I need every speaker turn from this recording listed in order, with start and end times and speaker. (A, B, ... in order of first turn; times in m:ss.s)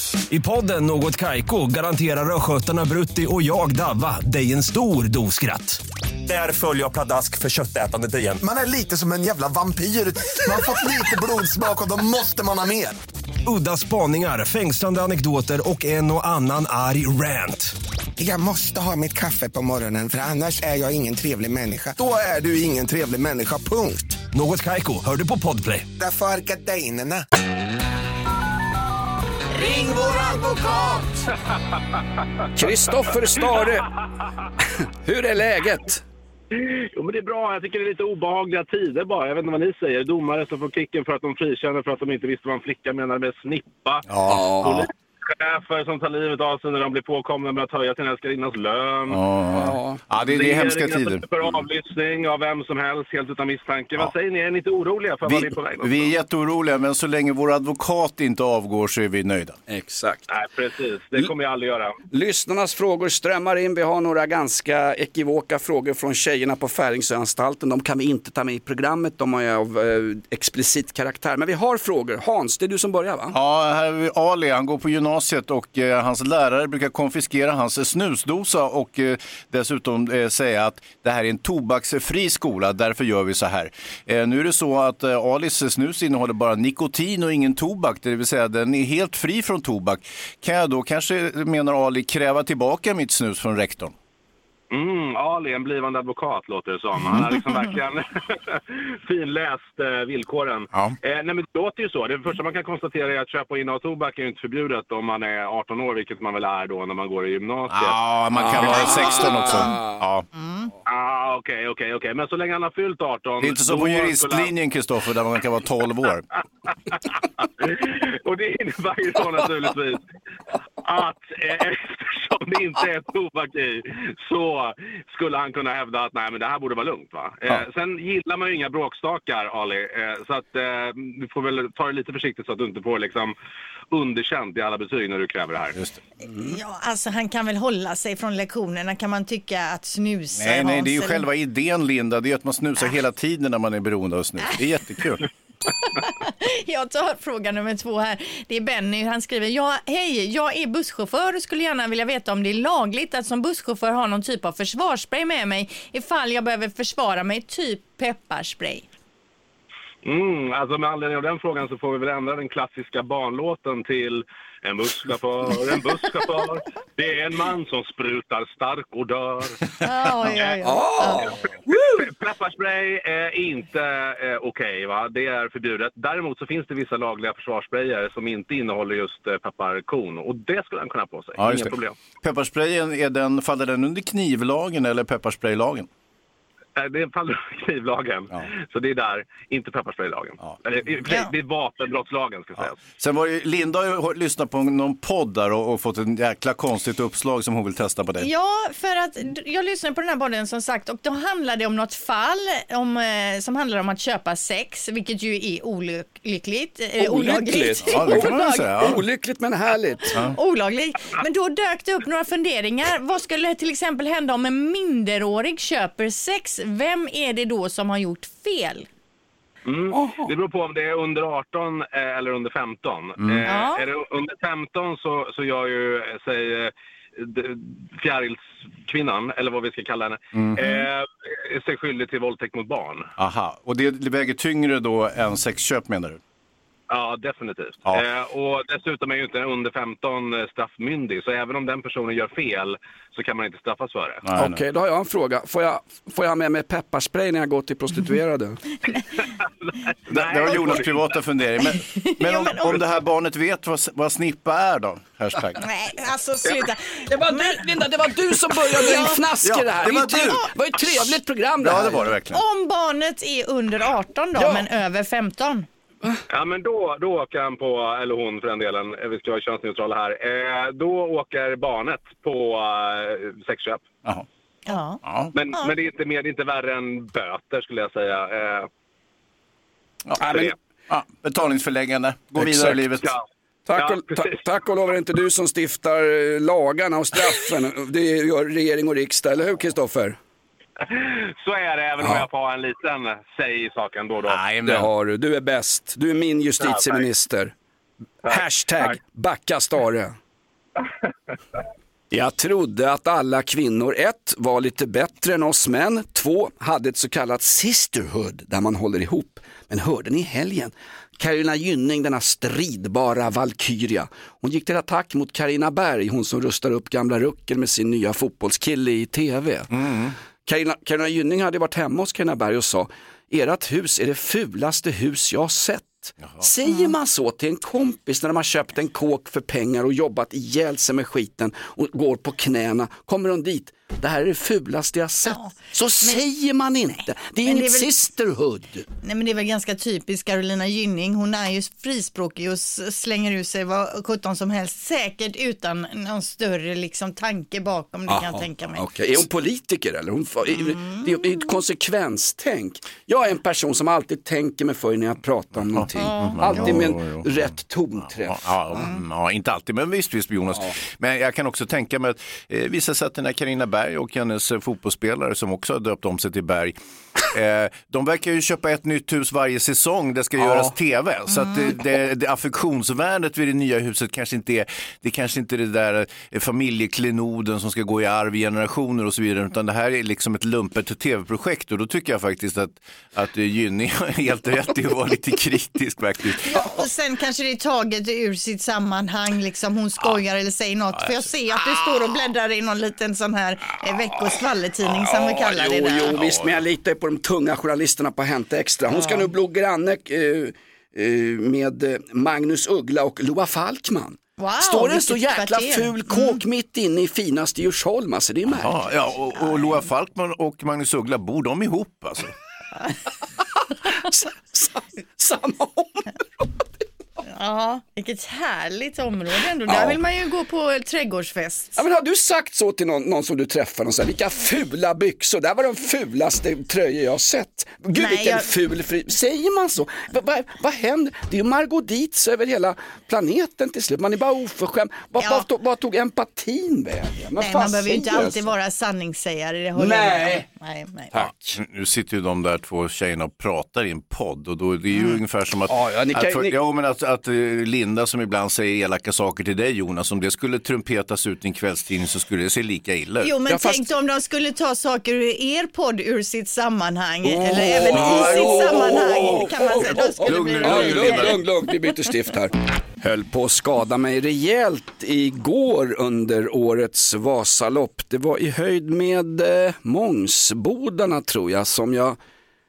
0:00.3-0:08.4 A
0:08.4-0:13.0 B
0:13.4-0:17.7 A
0:18.2-0:24.2 B
0:24.3-0:25.9 A
0:26.0-0:27.2 B
0:29.6-0:30.6 C
0:29.6-0:31.0 D
0:32.5-0:33.9 E
0:35.0-0:36.0 E
0:36.6-0:49.2 F
0:44.1-0:44.6 D
0:44.3-0:44.9 E
0:49.1-0:51.5 D
0:49.5-0:50.0 E
0:50.2-0:56.1 F
0:55.2-0:59.6 D
0:59.7-1:00.3 E
1:00.3-1:02.0 F
1:02.1-1:13.4 E
1:13.3-1:33.9 D
1:34.7-1:48.0 F
1:37.0-1:37.3 D
1:47.7-1:50.2 D
1:48.4-1:50.0 E
1:48.4-1:49.8 C
1:50.4-1:50.7 C
1:50.8-1:54.5 F
1:53.4-1:56.3 D
1:56.9-2:00.0 F
2:00.8-2:13.3 F
2:13.9-2:15.8 F
2:16.4-2:21.2 C
2:20.4-2:25.2 D
2:25.9-2:38.9 C
2:40.0-2:49.6 F
2:49.8-2:51.4 C
2:50.6-2:52.1 E
2:52.0-3:02.0 F
3:01.4-3:05.9 D
3:06.8-3:12.8 F
3:11.1-3:11.3 C
3:12.6-3:18.3 D
3:18.2-3:28.9 C
3:27.0-3:30.2 E
3:27.8-3:29.0 D
3:30.1-3:38.9 C
3:39.6-3:53.1 F
3:39.9-3:40.3 E
3:43.2-3:43.5 D
3:43.4-3:43.9 C
3:50.3-3:50.6 D
3:53.2-3:56.2 D
3:56.9-4:04.2 F
4:04.2-4:04.6 D
4:04.4-4:08.6 E
4:09.7-4:11.0 F
4:10.1-4:15.6 D
4:11.8-4:12.8 C
4:15.6-4:17.6 C
4:17.1-4:22.1 E
4:18.7-4:19.2 C
4:19.0-4:22.4 D
4:22.3-4:25.7 C
4:24.4-4:24.7 E
4:26.3-4:33.9 F
4:34.7-4:35.0 C
4:35.0-4:35.3 D
4:35.3-4:38.7 F
4:40.2-4:40.5 E
4:40.9-4:43.1 D
4:42.4-4:42.9 E
4:43.7-4:50.2 E
4:43.8-4:44.4 F
4:50.8-4:54.4 F
4:52.0-4:52.3 E
4:54.2-4:54.9 D
4:54.6-4:57.5 E
4:56.6-4:57.0 F
4:58.3-5:00.1 E
4:58.3-4:58.9 F
5:02.1-5:19.7 E
5:19.7-5:20.1 D
5:20.4-5:38.8 E
5:26.6-5:26.9 C
5:35.3-5:36.2 C
5:37.4-5:37.9 C
5:39.0-5:48.8 C
5:48.1-5:58.9 E
5:50.5-5:51.5 C
5:55.7-6:26.5 D
5:56.0-5:56.8 C
6:10.4-6:10.7 E
6:26.4-6:36.1 C
6:34.8-6:48.8 E
6:36.1-6:36.6 D
6:38.9-6:39.2 C
6:44.4-6:46.4 C
6:48.5-6:52.3 D
6:49.4-6:49.6 C
6:53.7-6:56.6 E
6:57.2-7:01.8 C
6:59.7-7:00.0 E
7:01.8-7:18.5 E
7:07.9-7:08.5 C
7:15.2-7:15.4 C
7:17.4-7:21.1 C
7:19.8-7:20.4 E
7:21.1-7:21.6 E
7:21.6-7:33.3 D
7:25.7-7:26.6 E
7:33.2-7:41.4 C
7:33.5-7:33.8 E
7:37.2-7:52.2 E
7:37.8-7:38.9 D
7:40.2-7:41.4 D